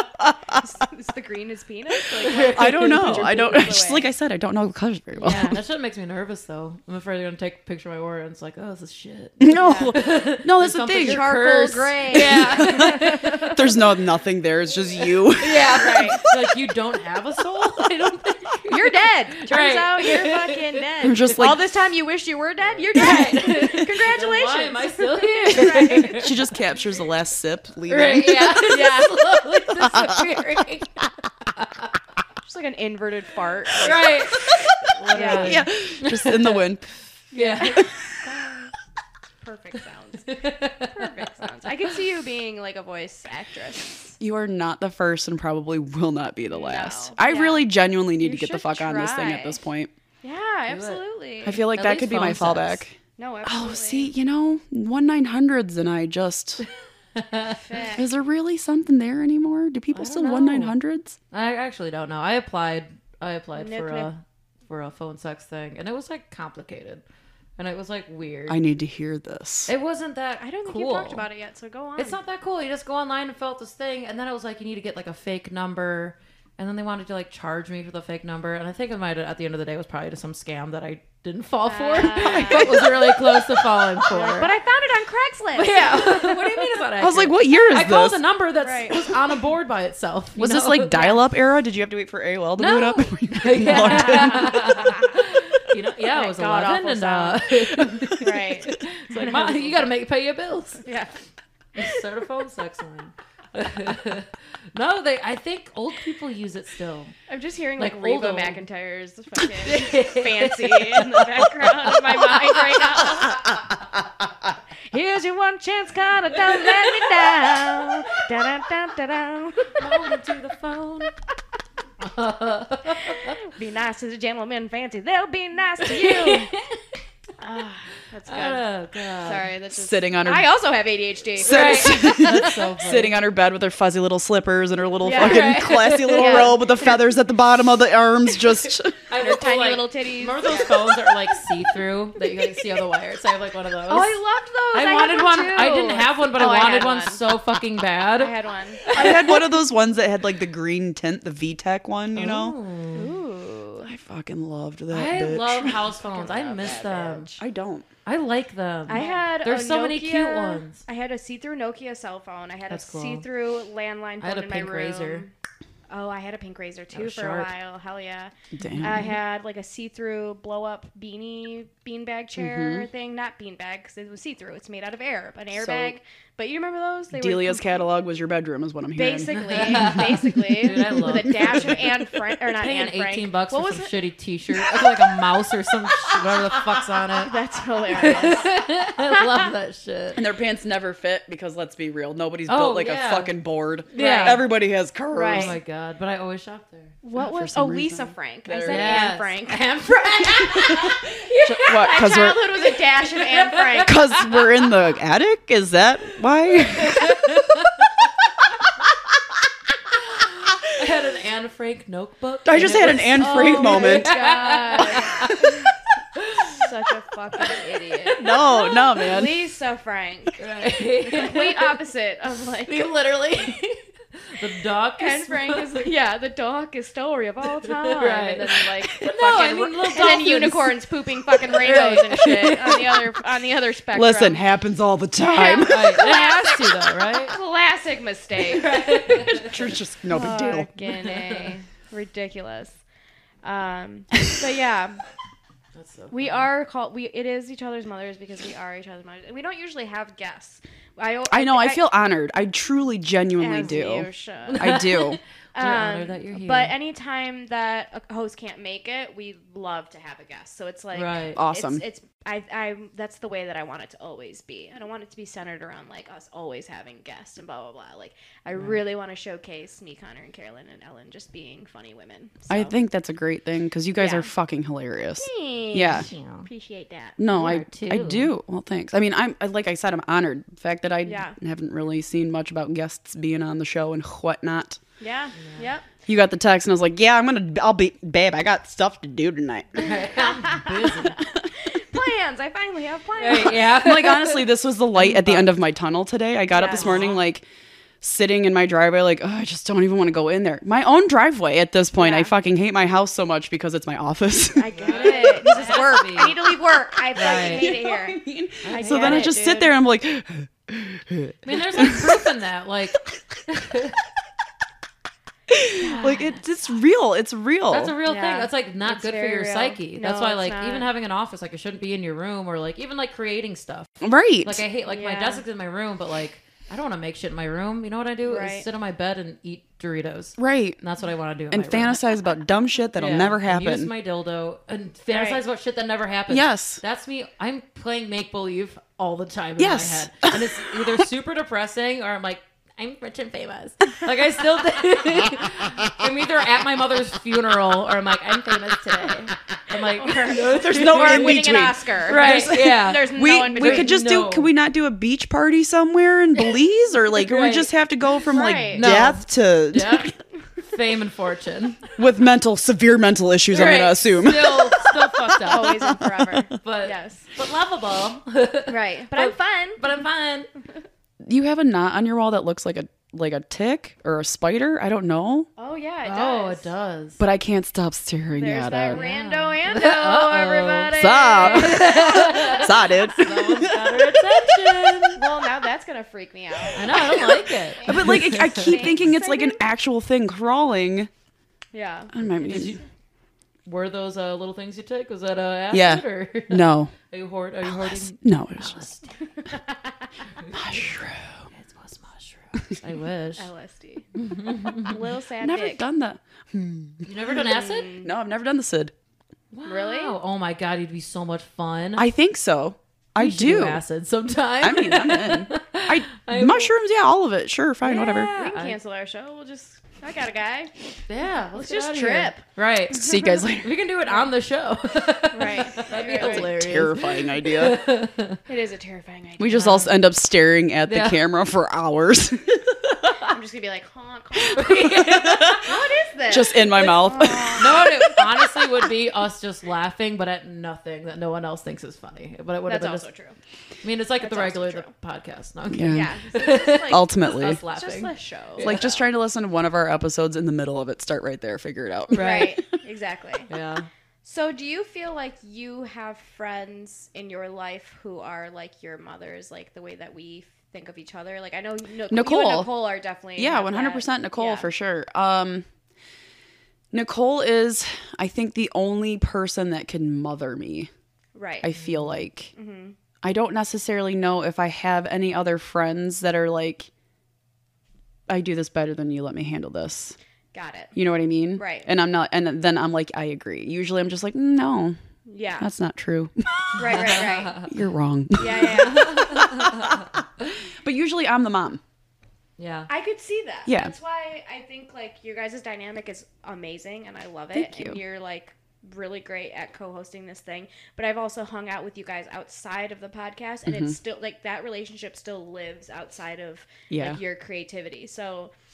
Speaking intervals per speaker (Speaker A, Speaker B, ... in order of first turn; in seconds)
Speaker A: 0.2-0.7, 2.4-5.6, 9.4-11.4, 12.3-16.1, 21.0-21.6, 26.1-28.7, 29.8-30.3, 34.5-36.9, 44.2-49.9, 51.5-53.0, 53.5-56.6, 58.0-61.2, 68.5-69.7, 87.0-88.2, 90.4-94.7, 129.7-130.5, 131.4-139.0, 148.9-152.6, 153.8-155.8, 157.4-157.9, 168.5-169.0, 172.4-172.9, 175.5-176.0, 177.1-180.0, 190.2-195.6, 197.2-199.1, 200.7-202.4, 203.8-207.3, 212.4-214.1, 218.2-219.3, 233.9-236.0, 239.4-240.7, 251.3-255.2, 261.4-261.8, 272.5-276.1, 277.2-284.8, 286.1-289.9, 293.6-297.4, 298.0-306.3, 307.2-312.3, 315.5-317.9, 324.0-324.6, 330.4-330.8, 331.5-333.9, 336.3-336.8, 339.6-340.7, 350.5-360.1, 362.0-364.9, 371.2-375.5, 377.2-379.0, 380.9-384.0, 387.9-391.1, 392.1-392.8, 395.7-396.9, 397.7-398.8, 400.5-401.5, 405.4-407.1, 408.0-408.9, 412.0-413.8, 414.6-418.3, 422.9-423.8, 426.1-427.8, 429.4-433.2, 434.9-435.7, 436.3-437.9, 445.7-446.1, 446.9-447.6, 448.6-452.6, 462.1-462.8, 463.4-465.6, 466.9-470.9, 471.6-472.5, 473.2-476.9, 478.3-480.2, 480.9-485.0, 485.6-490.2, 490.8-491.8, 493.7-493.9, 497.5-498.0, 503.7-503.9, 506.9-507.2
Speaker B: 0.6-4.1, 9.6-10.0, 11.0-13.5, 15.7-16.2, 18.7-26.3, 28.6-29.2, 32.4-34.3, 35.1-35.6, 37.3-38.7, 39.4-44.2, 46.5-49.6, 50.2-51.8, 53.2-54.1, 57.5-58.1, 63.6-64.1, 70.4-72.2, 81.7-83.1, 84.1-86.8, 88.6-89.0, 92.6-93.1, 93.6-95.2, 96.1-99.8, 100.8-101.1, 107.3-113.6, 114.9-119.8, 123.1-126.5, 127.4-128.7, 129.2-132.4, 135.0-136.9, 139.2-140.9, 143.9-147.2, 148.2-149.0, 152.9-153.9, 155.8-157.4, 158.9-165.3, 165.9-177.8, 178.9-183.9, 187.2-188.6, 193.9-194.4, 195.1-195.6, 197.0-199.8, 201.7-204.0, 213.2-215.6, 216.5-220.4, 221.0-222.8, 225.0-234.4, 235.2-239.4, 240.1-242.8, 243.4-245.0, 246.1-251.8, 253.4-254.8, 255.6-272.7, 274.0-274.3, 275.2-277.2, 281.1-281.4, 285.0-285.9, 290.2-293.7, 296.5-297.1, 302.0-302.3, 304.6-309.8, 318.1-320.9, 324.9-325.4, 328.2-328.7, 335.1-335.4, 350.0-354.0, 358.3-358.9, 365.4-367.3, 368.7-369.8, 375.6-376.7, 378.4-382.7, 385.2-389.6, 391.7-392.1, 403.4-405.8, 407.3-408.1, 409.6-410.2, 417.9-420.7, 421.6-422.4, 425.3-426.6, 428.5-429.7, 433.3-435.0, 435.6-438.2, 442.7-443.4, 444.2-444.9, 445.9-448.9, 452.2-453.5, 454.2-464.7, 471.4-471.7, 472.5-472.9, 480.5-480.9, 481.6-481.9, 485.3-485.7, 486.8-487.7, 488.4-489.3, 492.9-508.5
Speaker C: 2.2-3.5, 5.2-13.7, 15.4-20.6, 22.9-26.4, 27.9-31.0, 31.6-31.9, 33.8-36.7, 37.3-37.9, 40.3-41.3, 50.7-51.0, 51.7-52.8, 57.2-57.6, 59.9-60.8, 61.3-67.0, 67.6-68.6, 69.7-71.2, 72.0-84.5, 85.5-91.2, 93.3-100.8, 101.8-107.2, 107.8-108.6, 109.6-113.2, 119.8-121.1, 122.0-123.4, 125.9-127.0, 128.3-129.5, 131.4-133.2, 135.1-136.7, 139.1-144.2, 144.7-149.6, 152.1-153.2, 154.9-157.3, 158.1-160.8, 162.7-163.3, 164.2-165.3, 166.9-167.5, 168.7-169.1, 179.4-187.3, 187.9-190.2, 192.5-193.3, 193.9-194.4, 195.3-196.9, 198.6-204.7, 206.5-208.0, 210.1-215.5, 216.2-216.6, 217.9-218.9, 220.4-221.8, 222.7-225.9, 227.7-233.1, 235.4-237.3, 238.4-239.6, 241.0-241.5, 245.8-246.5, 254.5-256.8, 260.9-261.4, 276.0-276.5, 277.3-278.3, 289.8-291.2, 293.2-295.5, 296.7-297.2, 304.7-306.4, 307.1-307.7, 308.6-309.4, 311.4-314.0, 315.8-316.4, 317.7-323.9, 324.4-332.0, 333.0-354.5, 357.1-357.7, 358.7-361.9, 363.5-365.9, 366.6-370.5, 376.1-377.2, 378.9-385.2, 386.7-388.8, 392.4-392.8, 393.7-399.2, 401.5-403.5, 404.2-405.0, 407.1-407.9, 409.5-412.1, 413.2-416.7, 417.9-418.8, 421.1-428.4, 429.5-430.0, 430.9-431.2, 434.5-435.8, 437.6-443.0, 443.8-449.0, 452.1-452.6, 453.5-453.9, 487.2-487.6, 488.9-489.9, 492.6-492.9